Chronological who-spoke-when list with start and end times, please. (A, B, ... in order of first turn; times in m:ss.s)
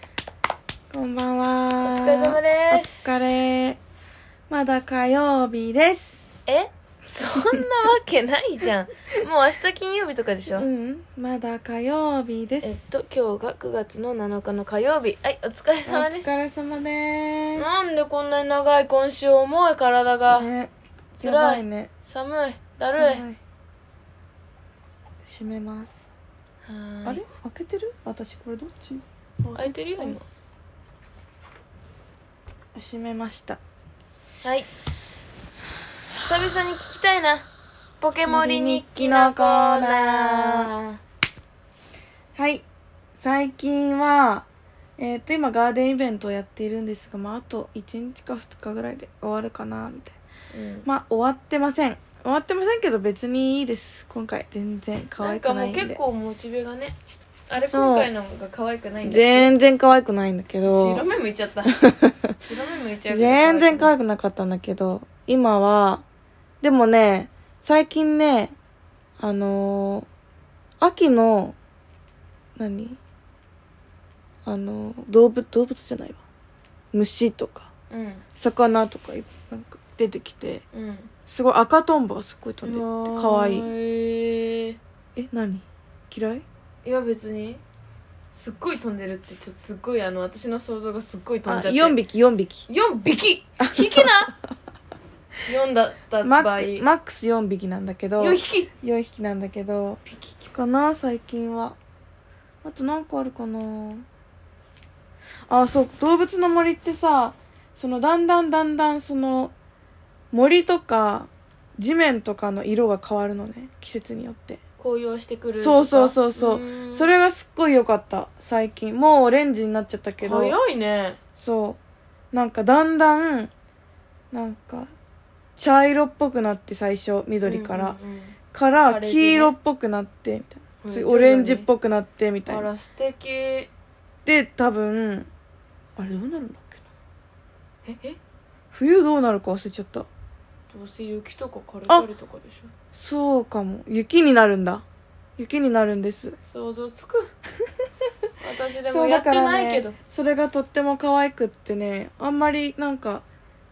0:00.9-0:03.8 A
0:01.8-0:03.3 B
0:04.5-0:06.2 A
0:06.4-0:10.7 B
0:07.4-0:07.7 A
0:10.5-0:12.7 A
0:12.6-0:16.5 B
0:15.8-0:17.6 A
0:17.6-0:20.5 B
0:20.3-0:21.9 A
0:21.1-0:23.2 B
0:22.9-0:23.4 A
0:25.2-0:26.1 A
0:26.6-0:27.2 B
0:27.0-0:30.2 A
0:29.5-0:30.2 B
0:32.7-0:33.6 A
0:34.4-0:34.7 B
0:36.1-0:37.5 B
0:38.0-0:41.0 B
0:38.2-0:40.7 A
0:42.3-0:42.6 A
0:43.2-0:50.1 A
0:50.5-0:50.9 B
0:50.8-0:56.0 A
0:55.2-0:59.5 B
0:57.6-0:58.1 A
0:59.0-1:01.0 A
1:00.6-1:01.8 B
1:01.7-1:02.3 A
1:02.4-1:03.9 B
1:03.1-1:06.0 A
1:06.6-1:08.5 A
1:09.2-1:10.1 A
1:10.8-1:11.6 A
1:12.6-1:13.0 A
1:14.4-1:16.2 A
1:16.9-1:17.7 A
1:17.9-1:18.2 B
1:18.4-1:20.6 A
1:20.7-1:21.1 B
1:21.3-1:23.7 A
1:22.6-1:24.8 B
1:25.2-1:26.4 A
1:26.8-1:27.6 B
1:28.3-1:32.0 B
1:31.5-1:32.6 A
1:32.7-1:34.4 B
1:33.6-1:34.1 A
1:35.5-1:36.9 B
1:36.2-1:41.8 A
1:38.2-1:38.7 B
1:42.6-1:44.0 A
1:45.5-1:49.5 A
1:50.3-1:54.6 A
1:54.8-1:57.1 B
1:55.6-2:00.6 A
2:00.2-2:01.2 B
2:01.4-2:01.8 A
2:02.3-2:03.5 A
2:04.3-2:04.9 A
2:05.6-2:08.0 A
2:07.4-2:09.5 B
2:08.5-2:12.7 A
2:10.8-2:11.7 B
2:12.5-2:13.7 B
2:14.2-2:15.3 A
2:16.0-2:16.8 A
2:17.8-2:18.2 B
2:18.7-2:20.1 A
2:20.7-2:22.7 B
2:22.9-2:24.8 A
2:25.4-2:26.4 A
2:26.4-2:27.3 B
2:28.4-2:29.9 B
2:28.9-2:33.2 A